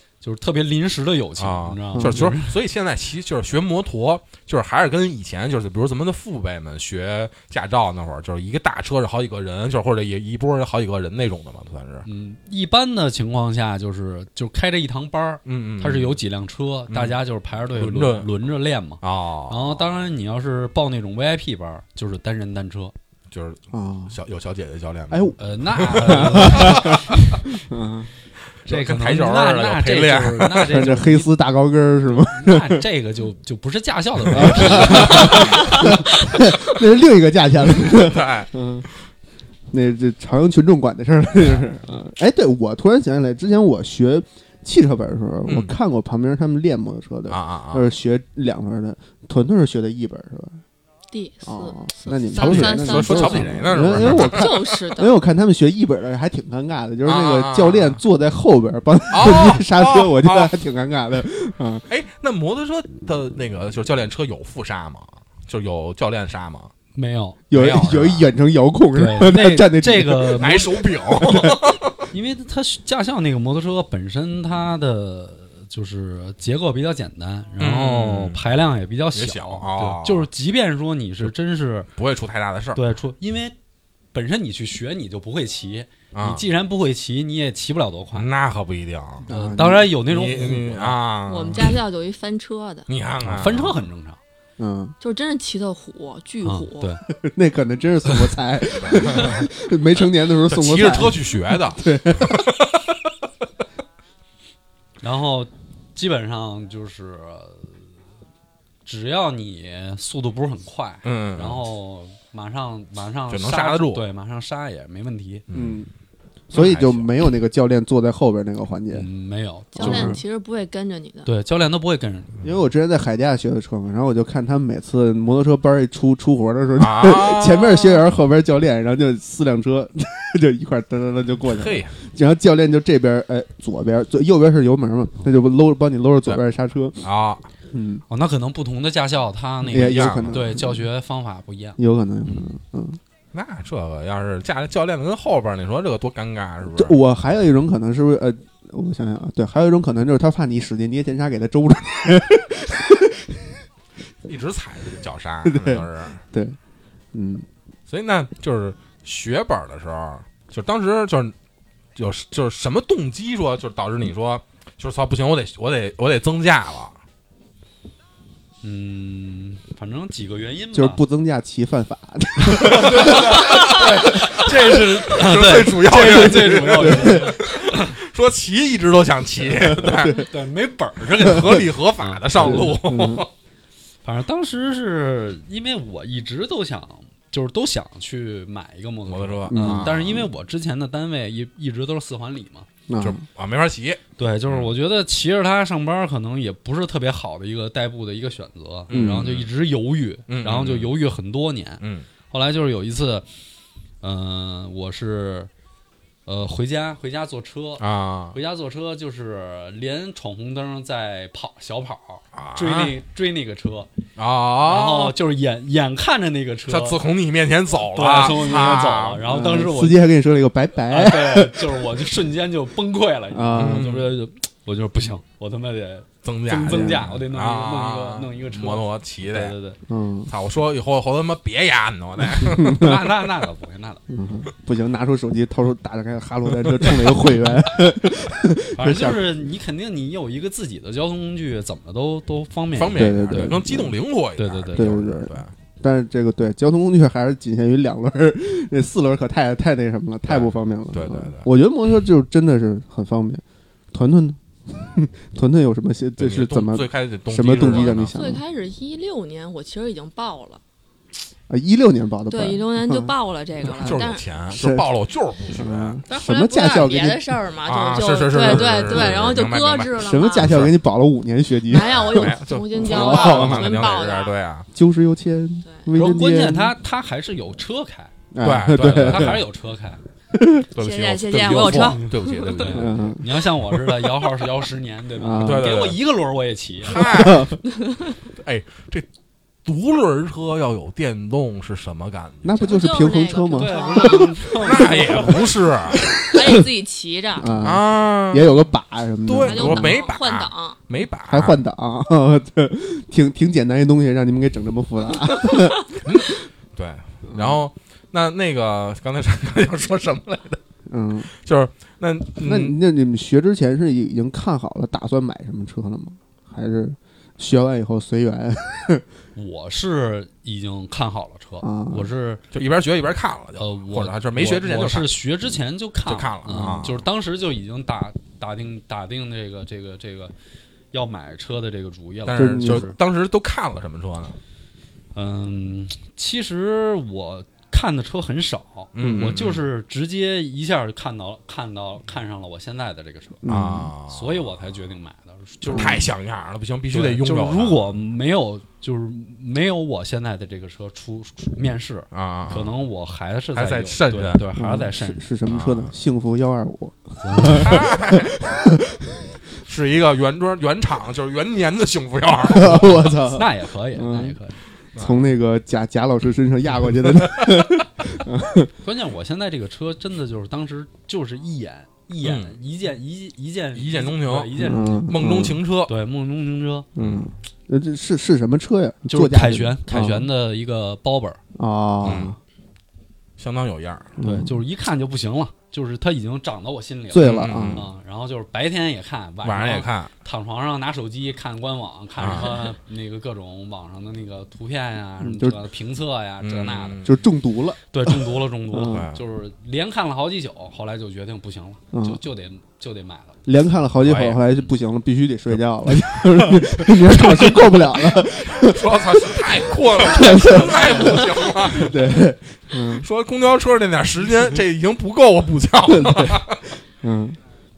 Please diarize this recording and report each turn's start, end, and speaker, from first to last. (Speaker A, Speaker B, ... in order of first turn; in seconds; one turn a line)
Speaker A: 0.2-2.6
Speaker B: 1.4-12.1
Speaker C: 1.9-2.3
Speaker A: 12.1-22.9
Speaker B: 15.4-16.2
Speaker B: 16.9-17.2
Speaker B: 17.7-18.3
Speaker B: 19.0-20.1
Speaker B: 23.3-27.4
Speaker C: 23.7-24.1
Speaker C: 25.1-28.1
Speaker A: 25.4-27.0
Speaker B: 28.6-30.7
Speaker A: 28.7-31.3
Speaker C: 30.7-32.9
Speaker A: 32.3-35.9
Speaker C: 34.3-38.9
Speaker B: 34.4-35.4
Speaker D: 35.5-35.9
Speaker B: 37.7-38.5
Speaker C: 39.7-50.6
Speaker B: 45.5-45.7
Speaker B: 47.3-47.9
Speaker D: 51.1-55.1
Speaker C: 51.5-61.8
Speaker B: 52.4-54.9
Speaker B: 57.0-58.0
Speaker B: 59.1-60.5
Speaker B: 61.9-66.7
Speaker A: 67.0-67.7
Speaker C: 67.5-71.6
Speaker B: 67.5-68.3
Speaker A: 69.0-70.7
Speaker B: 70.4-72.1
Speaker A: 72.1-81.9
Speaker B: 77.6-78.4
Speaker B: 79.1-80.3
Speaker B: 82.0-82.8
Speaker A: 82.8-83.6
Speaker A: 84.1-88.3
Speaker B: 86.1-86.5
Speaker B: 88.1-89.3
Speaker C: 89.3-89.9
Speaker A: 89.3-91.0
Speaker B: 90.1-91.8
Speaker D: 91.3-92.9
Speaker B: 92.9-93.8
Speaker A: 93.2-94.2
Speaker C: 94.6-94.9
Speaker D: 95.0-97.0
Speaker A: 96.4-97.0
Speaker C: 97.1-102.4
Speaker B: 98.8-99.5
Speaker B: 100.3-103.0
Speaker A: 105.0-107.8
Speaker A: 108.8-115.4
Speaker B: 111.0-111.6
Speaker B: 113.3-114.0
Speaker B: 115.5-115.8
Speaker C: 115.5-115.9
Speaker C: 116.5-119.1
Speaker B: 116.5-117.1
Speaker A: 118.9-120.2
Speaker D: 119.8-121.3
Speaker C: 119.8-120.2
Speaker A: 121.2-122.4
Speaker C: 122.4-137.0
Speaker B: 126.8-128.1
Speaker B: 131.4-131.9
Speaker B: 137.0-137.5
Speaker C: 137.7-138.0
Speaker A: 138.1-141.8
Speaker C: 139.7-140.8
Speaker B: 139.7-140.5
Speaker C: 141.8-143.0
Speaker B: 143.3-147.0
Speaker C: 146.8-153.5
Speaker B: 154.2-156.2
Speaker C: 155.4-156.6
Speaker C: 157.1-157.5
Speaker B: 157.9-161.3
Speaker B: 162.0-167.0
Speaker A: 168.6-171.0
Speaker C: 170.7-173.5
Speaker A: 172.6-178.0
Speaker B: 172.9-180.3
Speaker C: 176.1-177.3
Speaker C: 179.5-180.3
Speaker A: 180.2-182.8
Speaker B: 181.1-183.3
Speaker C: 182.4-183.3
Speaker A: 184.0-192.7
Speaker B: 189.1-190.3
Speaker C: 189.5-190.2
Speaker C: 192.9-193.2
Speaker B: 193.0-194.7
Speaker A: 194.2-203.3
Speaker B: 198.9-199.5
Speaker C: 198.9-199.3
Speaker B: 200.3-200.9
Speaker B: 201.8-202.1
Speaker A: 204.0-205.5
Speaker A: 206.3-213.9
Speaker B: 207.8-208.4
Speaker B: 212.3-213.0
Speaker B: 214.2-215.2
Speaker A: 214.6-217.0
Speaker B: 216.7-219.2
Speaker A: 217.9-220.1
Speaker C: 219.3-222.0
Speaker A: 220.9-229.8
Speaker C: 223.3-223.9
Speaker B: 223.6-224.1
Speaker B: 226.2-229.6
Speaker C: 226.7-227.0
Speaker C: 229.9-230.3
Speaker B: 230.3-233.0
Speaker C: 232.2-233.1
Speaker A: 232.6-234.0
Speaker C: 234.1-239.3
Speaker B: 236.8-237.1
Speaker A: 238.8-243.6
Speaker B: 242.7-245.5
Speaker C: 242.9-243.9
Speaker A: 244.4-245.0
Speaker C: 244.7-258.4
Speaker B: 250.3-251.5
Speaker B: 256.2-258.2
Speaker D: 257.6-260.6
Speaker C: 261.5-264.0
Speaker D: 262.3-264.2
Speaker B: 263.7-266.0
Speaker C: 264.5-264.9
Speaker C: 265.5-267.4
Speaker D: 266.1-270.6
Speaker B: 267.7-270.8
Speaker C: 268.9-269.1
Speaker C: 270.0-273.9
Speaker D: 271.6-274.4
Speaker B: 271.9-274.7
Speaker C: 274.7-276.8
Speaker A: 275.9-278.1
Speaker C: 278.3-279.4
Speaker B: 278.4-279.4
Speaker A: 278.7-280.0
Speaker C: 280.3-280.7
Speaker D: 280.7-282.6
Speaker B: 280.8-283.2
Speaker A: 281.7-287.0
Speaker C: 282.7-283.5
Speaker C: 285.2-285.8
Speaker B: 285.4-286.0
Speaker B: 286.8-287.6
Speaker C: 286.9-287.6
Speaker B: 288.3-289.1
Speaker B: 289.7-292.8
Speaker C: 292.4-294.3
Speaker D: 292.5-294.3
Speaker A: 293.5-295.5
Speaker B: 294.5-296.0
Speaker C: 295.9-296.6
Speaker D: 296.1-297.5
Speaker C: 297.4-300.0
Speaker B: 297.6-298.6
Speaker B: 299.3-301.6
Speaker D: 299.4-300.8
Speaker C: 301.3-305.9
Speaker D: 305.5-305.8
Speaker B: 306.0-310.6
Speaker C: 307.3-307.6
Speaker C: 310.9-311.3
Speaker B: 311.4-312.8
Speaker C: 312.4-319.1
Speaker A: 319.4-322.4
Speaker C: 321.6-322.1
Speaker B: 322.5-325.1
Speaker A: 323.6-330.3
Speaker B: 326.1-327.0
Speaker A: 330.9-333.0
Speaker B: 332.3-334.4
Speaker C: 332.4-332.9
Speaker A: 335.1-343.5
Speaker B: 338.9-339.6
Speaker C: 343.4-343.9
Speaker B: 343.5-344.5
Speaker A: 344.1-346.0
Speaker B: 345.6-348.0
Speaker C: 345.7-346.0
Speaker A: 346.9-355.3
Speaker B: 352.1-352.8
Speaker B: 353.6-354.5
Speaker C: 354.6-359.2
Speaker B: 355.5-355.9
Speaker A: 357.2-357.8
Speaker B: 357.5-358.6
Speaker B: 359.6-363.2
Speaker C: 362.4-364.4
Speaker A: 363.2-364.6
Speaker B: 364.9-365.3
Speaker C: 365.0-368.7
Speaker A: 368.8-375.2
Speaker B: 372.2-372.6
Speaker B: 373.8-374.6
Speaker C: 374.6-375.6
Speaker B: 375.1-375.9
Speaker A: 375.9-376.9
Speaker C: 377.0-380.3
Speaker B: 377.0-377.3
Speaker A: 379.1-381.4
Speaker C: 381.6-382.4
Speaker B: 382.0-382.4
Speaker B: 383.4-384.1
Speaker C: 384.2-384.6
Speaker A: 384.2-397.1
Speaker C: 387.1-387.9
Speaker B: 387.2-387.9
Speaker B: 389.4-390.1
Speaker B: 392.2-392.6
Speaker C: 395.2-395.6
Speaker B: 396.4-397.2
Speaker C: 397.0-397.8
Speaker A: 397.9-403.4
Speaker C: 398.7-399.1
Speaker B: 398.7-399.2
Speaker C: 401.9-402.2
Speaker C: 403.4-413.1
Speaker B: 404.0-404.4
Speaker B: 405.9-412.1
Speaker B: 412.9-416.7
Speaker C: 415.9-416.4
Speaker C: 417.0-417.4